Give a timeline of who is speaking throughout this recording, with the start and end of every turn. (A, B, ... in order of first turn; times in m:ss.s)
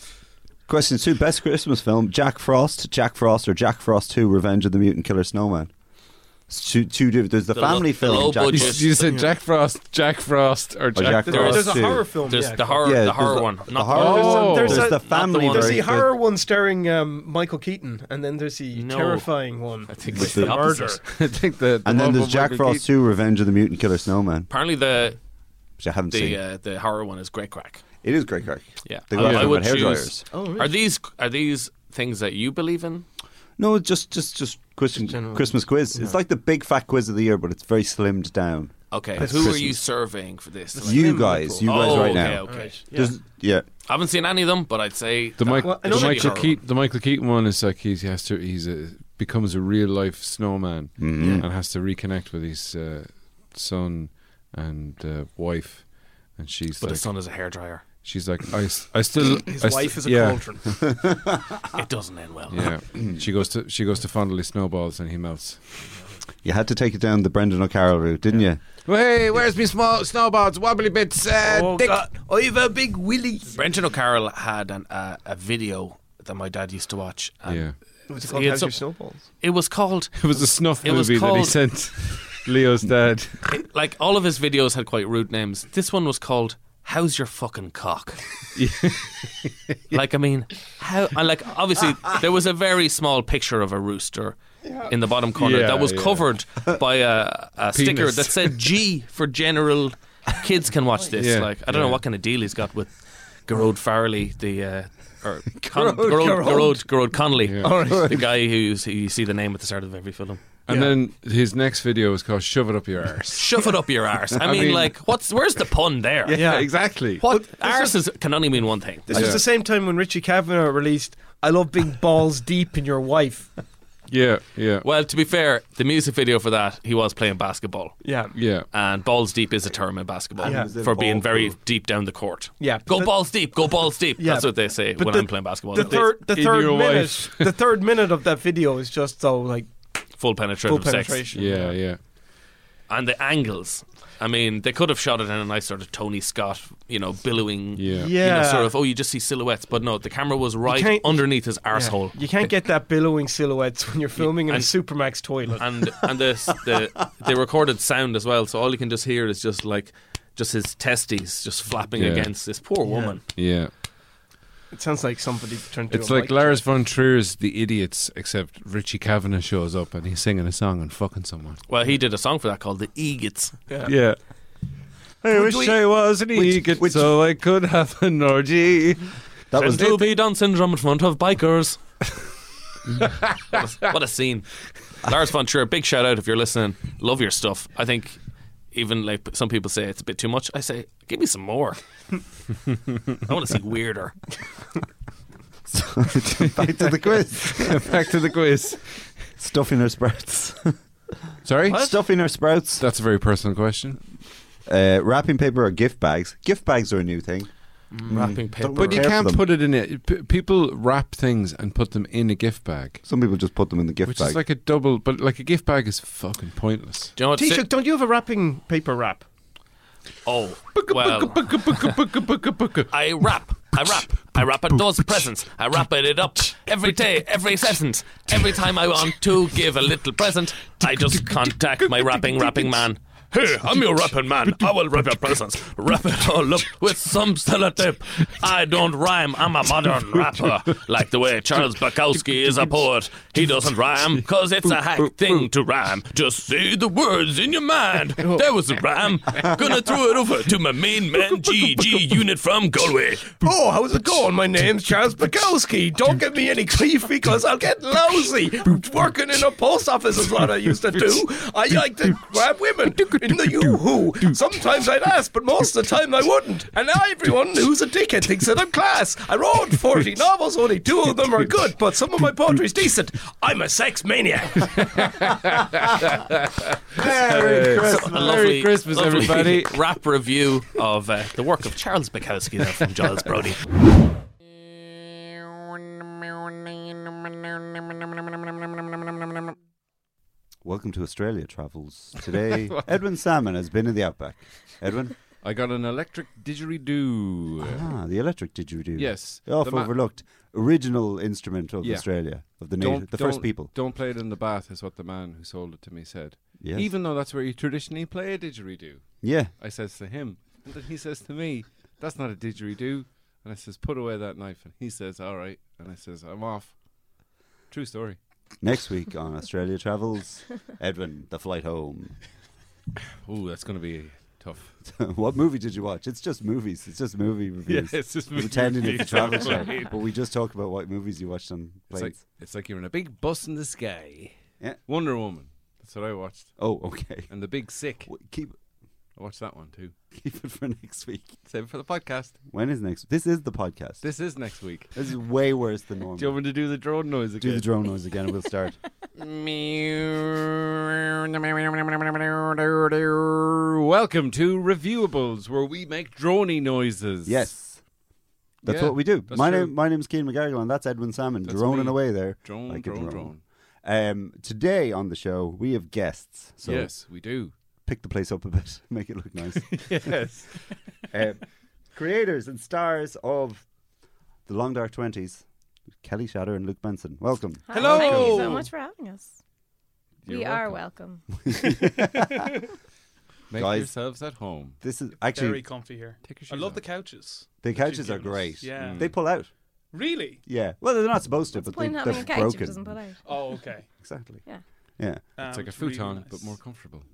0:00.7-0:05.7 A
0:06.5-0:08.9 A
0:07.5-0:09.1 B
0:08.5-0:11.8 C
0:09.1-0:09.3 D
0:11.0-0:12.2 A
0:11.2-0:13.1 D
0:12.3-0:15.9 B
0:12.8-0:16.1 A
0:13.9-0:21.0 D
0:13.9-0:14.9 C
0:18.7-0:21.0 B
0:21.1-0:22.9 C
0:21.8-0:24.5 A
0:24.5-0:25.2 B
0:25.8-0:26.4 A
0:26.1-0:27.8 B
0:28.0-0:30.3 A
0:28.8-0:33.1 B
0:29.2-0:29.5 C
0:30.3-0:30.8 D
0:33.6-0:39.8 A
0:35.0-0:36.2 D
0:38.9-0:42.8 B
0:39.2-0:39.7 D
0:40.7-0:43.2 D
0:40.8-0:43.6 A
0:43.8-0:46.6 B
0:45.4-0:57.1 C
0:45.6-0:46.6 D
0:51.0-0:51.5 A
0:51.2-0:51.4 D
0:56.8-0:57.8 B
0:58.0-1:00.4 C
0:59.2-1:00.8 D
1:00.9-1:01.4 A
1:01.7-1:02.7 B
1:02.5-1:05.6 C
1:06.4-1:08.6 A
1:08.9-1:11.9 C
1:11.4-1:13.6 D
1:13.5-1:21.6 B
1:17.5-1:17.8 C
1:18.1-1:19.3 D
1:20.2-1:23.5 C
1:23.5-1:28.4 B
1:28.6-1:29.8 C
1:29.9-1:50.4 B
1:35.4-1:36.3 C
1:37.7-1:38.5 C
1:41.2-1:42.0 C
1:45.6-1:46.6 A
1:46.0-1:46.8 D
1:47.4-1:47.7 C
1:47.9-1:48.1 A
1:50.7-1:53.5 C
1:50.7-1:51.0 D
1:53.4-1:59.3 B
1:54.4-1:54.9 C
1:56.3-1:57.2 C
1:56.3-1:58.0 D
1:59.1-2:03.5 D
1:59.1-1:59.4 C
2:04.1-2:04.9 C
2:04.8-2:16.2 B
2:08.0-2:08.4 D
2:08.4-2:08.7 C
2:10.4-2:10.8 D
2:10.4-2:11.6 A
2:12.6-2:19.7 D
2:15.8-2:17.5 C
2:20.2-2:21.3 B
2:20.6-2:21.8 D
2:21.3-2:22.0 C
2:22.9-2:32.2 B
2:27.8-2:28.1 C
2:27.9-2:28.7 D
2:30.7-2:35.7 D
2:34.2-2:43.2 B
2:42.0-2:42.6 C
2:42.8-2:43.2 D
2:43.3-2:43.7 C
2:44.7-2:46.7 D
2:45.9-2:51.6 C
2:51.7-2:53.6 B
2:53.7-2:53.9 D
2:53.9-2:54.2 C
2:55.3-2:57.2 A
2:55.3-2:55.8 D
2:55.3-2:59.2 C
2:59.5-3:00.0 A
2:59.5-3:01.8 B
3:03.5-3:08.2 B
3:08.7-3:11.8 B
3:13.2-3:14.2 B
3:15.7-3:17.9 A
3:16.4-3:19.2 C
3:19.4-3:20.8 A
3:21.4-3:22.0 C
3:21.7-3:22.8 A
3:22.8-3:24.0 C
3:24.7-3:27.5 A
3:27.9-3:29.0 B
3:28.1-3:29.5 A
3:28.8-3:33.0 C
3:33.0-3:34.4 A
3:34.1-3:37.2 C
3:37.2-3:37.7 B
3:37.3-3:39.2 D
3:40.2-3:42.0 B
3:40.8-3:41.9 D
3:42.0-3:42.9 C
3:42.9-4:13.4 B
4:13.4-4:35.1 D
4:23.1-4:23.7 C
4:34.8-4:39.8 C
4:37.0-4:38.4 A
4:37.8-4:43.6 B
4:50.6-4:55.2 A
4:55.4-4:57.8 C
4:57.6-5:03.7 A
4:59.0-4:59.9 C
5:01.8-5:18.2 C
5:06.6-5:06.9 A
5:09.2-5:09.5 A
5:18.6-5:22.2 A
5:23.2-5:24.7 C
5:24.8-5:32.2 A
5:27.7-5:30.0 C
5:31.9-5:36.6 C
5:36.6-5:37.5 A
5:37.3-5:38.1 C
5:38.1-5:38.6 A
5:39.2-5:39.9 C
5:40.1-5:41.4 A
5:41.5-5:42.4 C
5:42.5-5:44.0 A
5:44.0-5:44.9 C
5:44.9-5:46.6 A
5:46.2-5:47.7 C
5:47.4-5:48.8 A
5:49.2-5:57.5 C
5:57.3-5:57.8 A
5:58.6-5:59.8 C
5:58.6-6:07.1 A
6:01.4-6:03.4 C
6:06.6-6:07.5 C
6:07.8-6:10.1 A
6:09.7-6:10.7 C
6:11.1-6:11.4 A
6:11.9-6:13.6 A
6:14.5-6:15.4 A
6:16.0-6:17.7 A
6:17.7-6:19.4 E
6:17.7-6:18.7 C
6:17.8-6:18.5 F
6:20.3-6:20.8 C
6:20.3-6:21.2 E
6:21.5-6:22.4 A
6:23.5-6:24.8 C
6:23.5-6:23.9 A
6:24.8-6:25.7 A
6:25.2-6:29.2 F
6:26.2-6:26.8 C
6:27.6-6:29.5 A
6:28.8-6:29.1 C
6:29.9-6:30.4 F
6:30.4-6:33.1 A
6:31.5-6:33.7 E
6:33.2-6:33.9 F
6:33.9-6:34.4 A
6:35.0-6:35.2 A
6:35.4-6:36.6 F
6:35.4-6:37.0 C